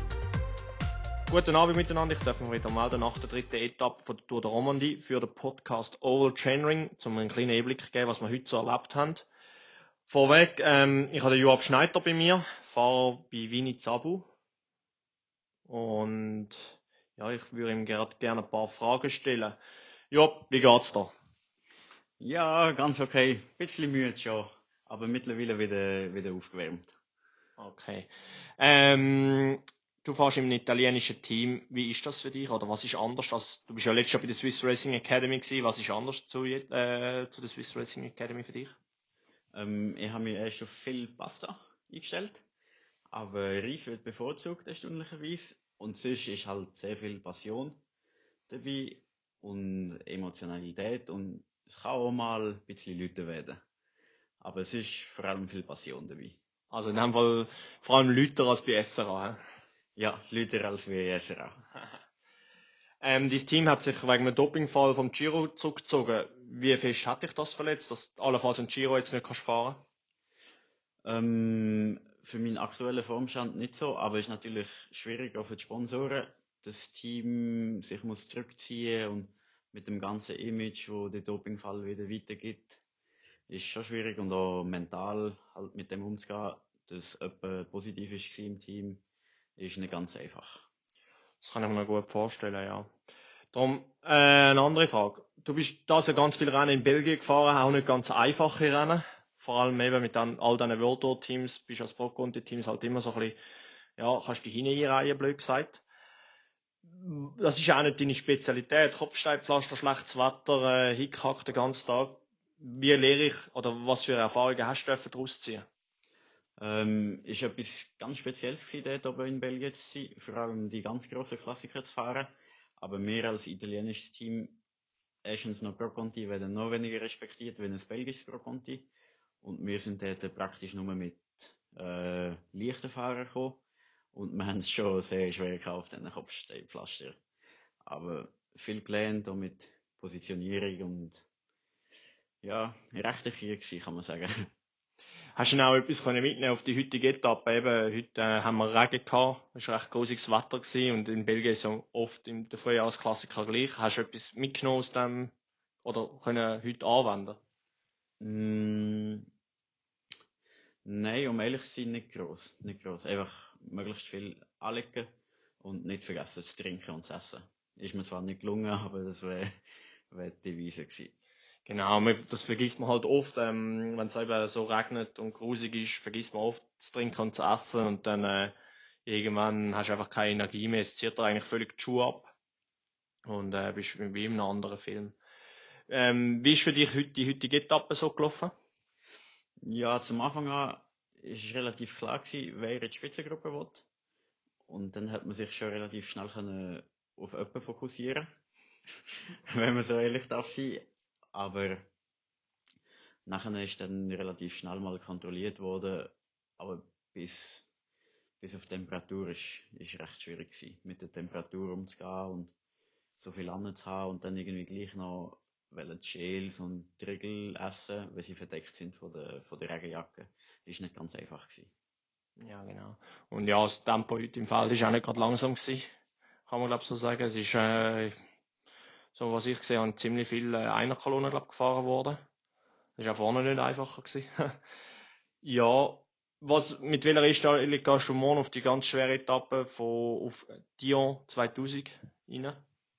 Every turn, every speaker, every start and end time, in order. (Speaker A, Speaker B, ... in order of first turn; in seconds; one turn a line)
Speaker A: 1.3-9.3
Speaker A: 10.1-14.3
Speaker A: 15.7-16.6
Speaker A: 17.2-19.6
Speaker A: 20.1-21.1
Speaker B: 22.2-26.9
Speaker A: 27.6-38.8
Speaker B: 39.5-42.4
Speaker B: 43.1-47.8
Speaker B: 48.5-53.6
Speaker B: 54.4-56.4
Speaker A: 56.7-59.4
Speaker B: 60.0-61.6
Speaker A: 63.0-69.8
Speaker B: 71.0-82.8
Speaker B: 83.5-89.0
Speaker B: 89.6-90.7
Speaker A: 91.4-92.9
Speaker A: 93.5-103.4
Speaker A: 104.0-105.8
Speaker A: 107.0-115.7
Speaker B: 116.6-124.6
Speaker B: 125.2-128.9
Speaker B: 129.4-133.6
Speaker B: 134.1-137.2
Speaker B: 137.8-141.2
Speaker B: 142.4-144.3
Speaker A: 145.4-155.3
Speaker A: 155.8-157.4
Speaker B: 158.2-159.3
Speaker B: 160.8-165.1
Speaker B: 165.6-169.5
Speaker B: 170.1-171.1
Speaker A: 171.7-178.5
Speaker A: 179.1-182.3
Speaker A: 183.3-185.2
Speaker A: 185.9-188.5
Speaker B: 189.7-193.9
Speaker B: 194.7-198.3
Speaker B: 199.5-201.9
Speaker B: 203.3-207.7
Speaker B: 208.4-212.5
Speaker B: 213.2-221.7
Speaker A: 222.4-225.9
Speaker A: 226.5-228.1
Speaker A: 229.1-232.2
Speaker A: 233.0-234.6
Speaker A: 235.4-242.6